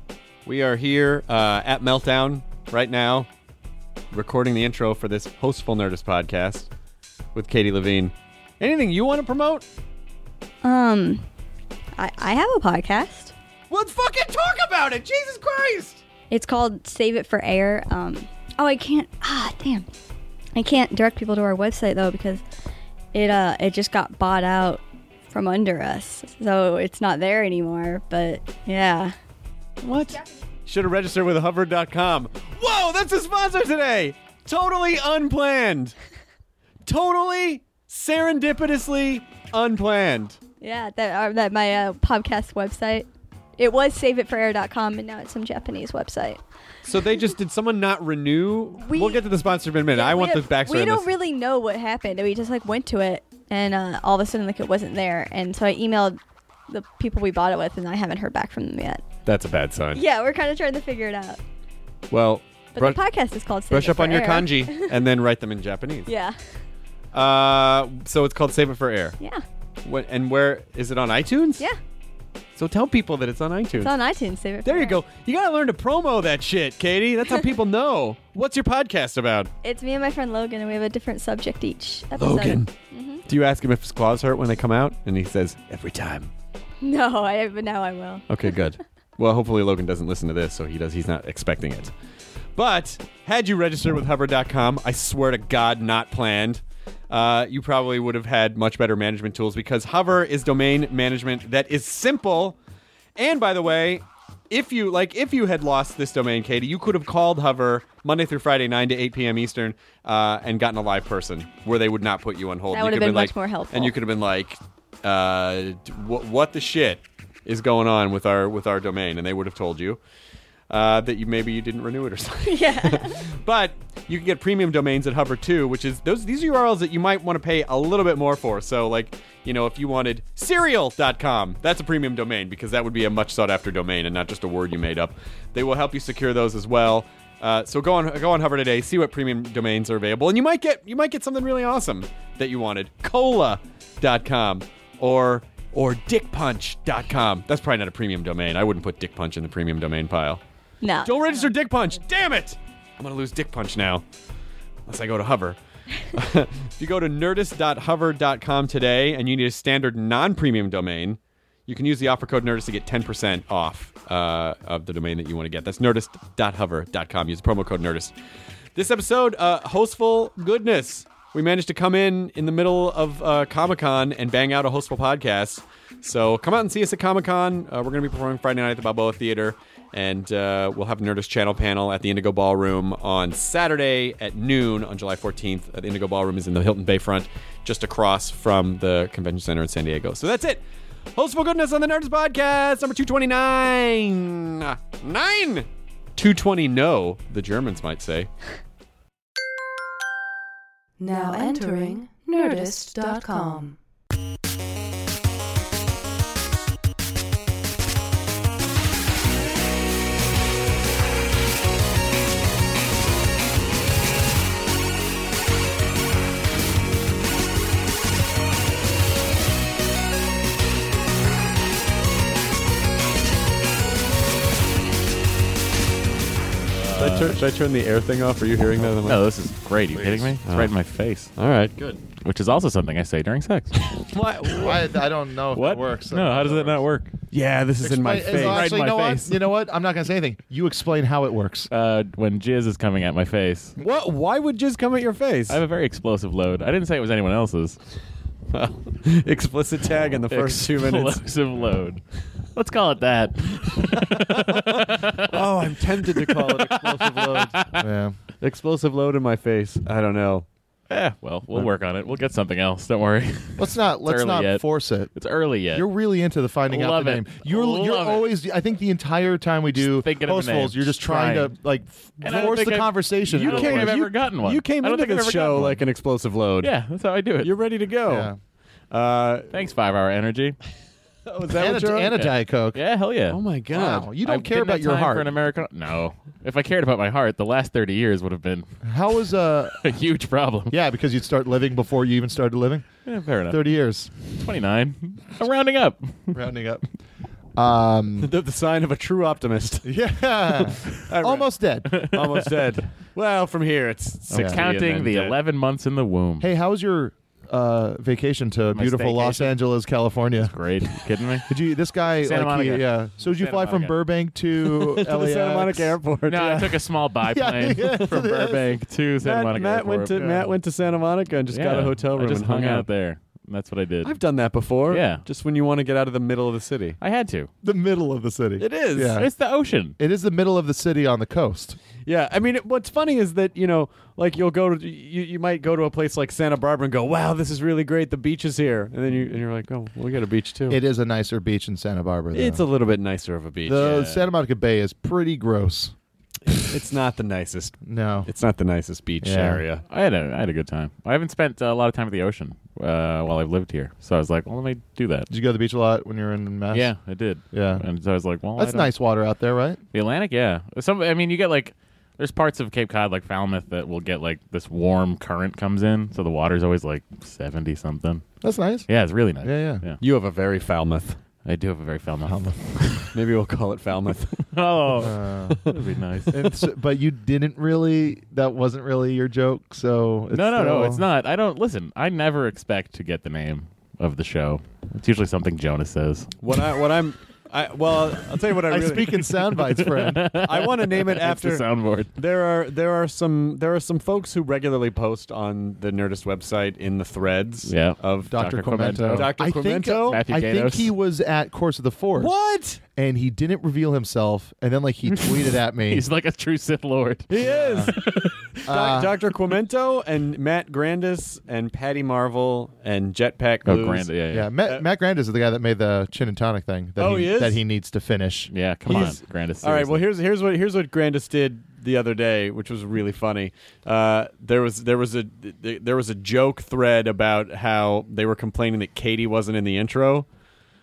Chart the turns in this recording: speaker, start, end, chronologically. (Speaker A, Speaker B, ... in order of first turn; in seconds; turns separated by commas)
Speaker A: 0.5-3.3, Speaker A: 4.1-6.7, Speaker A: 7.3-9.7, Speaker B: 10.6-11.2, Speaker B: 12.0-13.3, Speaker A: 13.7-16.0, Speaker B: 16.3-19.9, Speaker B: 20.6-22.4, Speaker B: 23.1-29.1, Speaker A: 29.8-36.0, Speaker A: 36.9-40.4, Speaker B: 40.6-43.1, Speaker B: 43.6-46.4, Speaker A: 46.8-51.1, Speaker B: 48.8-49.2, Speaker B: 49.9-59.0, Speaker A: 59.3-60.0, Speaker B: 60.0-61.4, Speaker A: 62.1-63.0, Speaker B: 62.8-65.0, Speaker A: 63.7-66.1, Speaker B: 66.1-66.4, Speaker A: 67.1-69.2, Speaker A: 69.8-71.7, Speaker A: 72.6-73.9, Speaker B: 73.8-75.0, Speaker A: 74.6-79.5, Speaker B: 79.6-83.2, Speaker A: 82.2-82.7, Speaker A: 83.3-86.3, Speaker B: 86.8-88.3, Speaker A: 88.3-91.9, Speaker A: 92.6-102.6, Speaker A: 103.2-120.0, Speaker B: 112.7-114.0, Speaker A: 120.7-150.4, Speaker B: 122.5-123.2, Speaker B: 150.8-151.3, Speaker A: 151.0-154.0, Speaker A: 154.9-155.6, Speaker A: 156.1-168.2, Speaker A: 168.8-190.6, Speaker A: 191.2-198.3, Speaker C: 201.0-203.8, Speaker D: 226.9-227.3, Speaker A: 226.9-229.3, Speaker D: 228.9-231.3, Speaker A: 229.9-230.7, Speaker A: 231.3-232.0, Speaker D: 232.2-233.9, Speaker A: 233.8-234.9, Speaker E: 234.5-236.8, Speaker D: 235.5-237.1, Speaker A: 237.3-239.4, Speaker E: 237.8-241.7, Speaker D: 238.3-238.6, Speaker D: 241.7-243.8, Speaker A: 243.8-245.6, Speaker D: 245.5-247.8, Speaker A: 248.5-251.3, Speaker D: 250.3-255.5, Speaker A: 253.9-257.6, Speaker D: 256.0-257.9, Speaker E: 257.8-258.2, Speaker A: 258.4-260.5, Speaker D: 260.9-265.9, Speaker E: 263.6-265.1, Speaker E: 265.7-273.9, Speaker D: 266.7-268.3, Speaker D: 269.8-271.5, Speaker D: 272.2-275.8, Speaker A: 273.4-276.7, Speaker D: 276.6-277.5, Speaker A: 277.4-278.3, Speaker E: 278.1-278.4, Speaker A: 278.9-279.7, Speaker D: 279.5-280.6, Speaker A: 281.3-282.1, Speaker E: 281.5-282.8, Speaker D: 282.1-283.4, Speaker A: 283.3-284.1, Speaker E: 283.7-285.3, Speaker D: 284.2-288.8, Speaker E: 288.8-289.9, Speaker D: 289.7-290.8, Speaker E: 290.7-292.9, Speaker D: 293.1-293.6, Speaker E: 293.5-294.1, Speaker D: 294.3-296.4, Speaker E: 296.3-296.8, Speaker E: 297.6-298.3, Speaker A: 298.2-299.9, Speaker E: 299.8-302.1, Speaker A: 300.6-305.4, Speaker E: 304.3-304.6, Speaker D: 304.3-306.5, Speaker E: 306.4-310.6, Speaker D: 308.8-309.6, Speaker D: 310.4-311.5, Speaker E: 311.5-316.7, Speaker D: 312.2-314.0, Speaker A: 314.7-316.6, Speaker D: 316.3-320.4, Speaker E: 317.3-318.6, Speaker A: 319.2-322.9, Speaker E: 320.1-320.5, Speaker D: 321.5-324.2, Speaker A: 324.0-327.0, Speaker D: 324.9-325.2, Speaker D: 327.0-327.5, Speaker E: 327.6-329.3, Speaker A: 328.6-329.2, Speaker D: 329.1-330.0, Speaker E: 330.0-331.8, Speaker A: 332.1-340.8, Speaker E: 340.7-342.6, Speaker A: 342.3-344.1, Speaker E: 343.7-345.9, Speaker D: 343.8-344.2, Speaker A: 346.5-349.8, Speaker E: 347.8-348.3, Speaker E: 349.2-349.6, Speaker D: 349.9-355.3, Speaker E: 355.3-356.9, Speaker D: 356.7-358.9, Speaker E: 357.5-357.9, Speaker E: 358.6-359.8, Speaker D: 359.9-368.3, Speaker E: 368.4-368.9, Speaker D: 368.9-370.0, Speaker E: 369.4-369.8, Speaker A: 370.0-371.2, Speaker D: 371.4-373.1, Speaker E: 372.3-373.1, Speaker A: 373.1-374.5, Speaker D: 374.5-376.4, Speaker E: 375.0-375.6, Speaker E: 376.3-381.0, Speaker D: 380.3-386.6, Speaker A: 386.4-389.4, Speaker E: 388.7-390.4, Speaker D: 389.6-392.1, Speaker A: 390.4-398.3, Speaker D: 397.6-399.3, Speaker E: 398.3-402.3, Speaker A: 399.0-400.2, Speaker D: 400.1-400.9, Speaker A: 402.2-402.8, Speaker E: 402.8-406.1, Speaker D: 405.9-408.5, Speaker A: 407.3-408.1, Speaker E: 407.4-407.9, Speaker E: 408.7-409.1, Speaker A: 408.7-414.1, Speaker D: 413.7-414.5, Speaker E: 414.3-419.1, Speaker A: 417.0-417.6, Speaker D: 418.5-420.1, Speaker A: 418.9-430.3